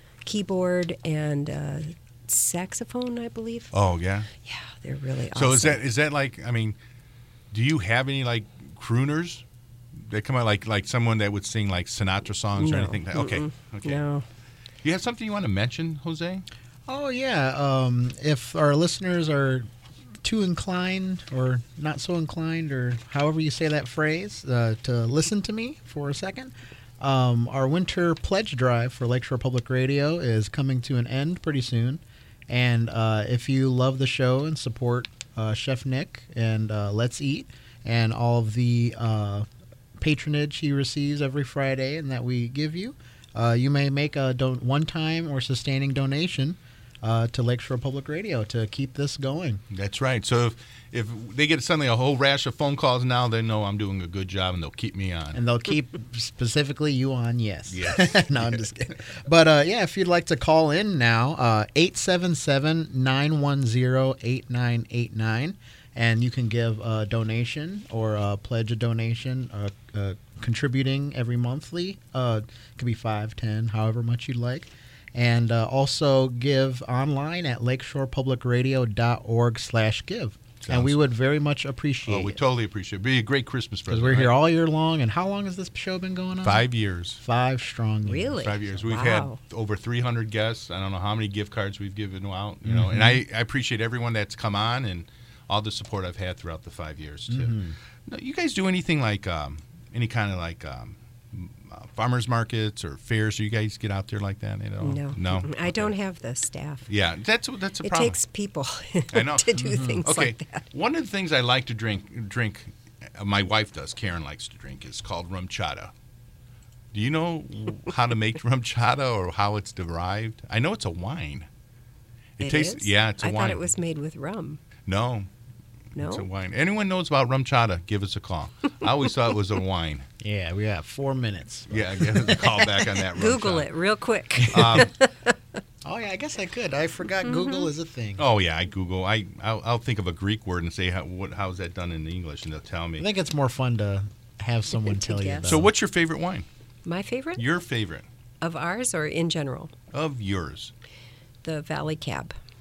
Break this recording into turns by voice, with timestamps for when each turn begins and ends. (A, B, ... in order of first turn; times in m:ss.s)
0:00.2-0:03.7 A
0:03.7-0:04.3 B
0:04.4-0:05.8 A
0:05.3-0:06.8 B
0:07.5-0:09.4 B
0:10.0-0:14.0 B
0:12.6-0:14.2 A
0:14.8-0:16.4 B
0:16.9-0:19.7 C
0:20.2-0:39.5 C
0:40.0-0:49.6 C
0:49.7-0:55.4 B
0:55.3-1:22.4 C
0:57.7-0:59.0 B
1:20.6-1:20.9 B
1:22.1-1:24.3 B
1:23.9-1:26.6 C
1:26.4-1:27.2 B
1:27.2-1:28.5 C
1:28.0-1:29.4 A
1:28.4-1:45.9 B
1:32.6-1:33.2 C
1:37.3-1:37.8 C
1:44.8-1:46.9 A
1:46.9-1:48.2 B
1:47.8-1:50.6 A
1:49.1-1:55.9 B
1:49.6-1:50.1 C
1:56.9-2:01.5 B
2:02.4-2:03.7 B
2:02.4-2:04.6 A
2:04.9-2:05.3 B
2:06.0-2:06.3 A
2:06.0-2:10.0 B
2:10.2-2:12.5 C
2:11.7-2:13.7 B
2:13.2-2:15.3 A
2:14.5-2:14.9 B
2:14.6-2:14.8 C
2:15.8-2:18.2 C
2:17.2-2:17.7 A
2:18.2-2:23.0 B
2:23.0-2:25.7 C
2:24.8-2:25.6 A
2:25.5-2:26.4 B
2:26.8-2:27.4 A
2:27.4-2:28.0 B
2:28.4-2:29.7 A
2:29.9-2:30.7 B
2:31.4-2:32.3 A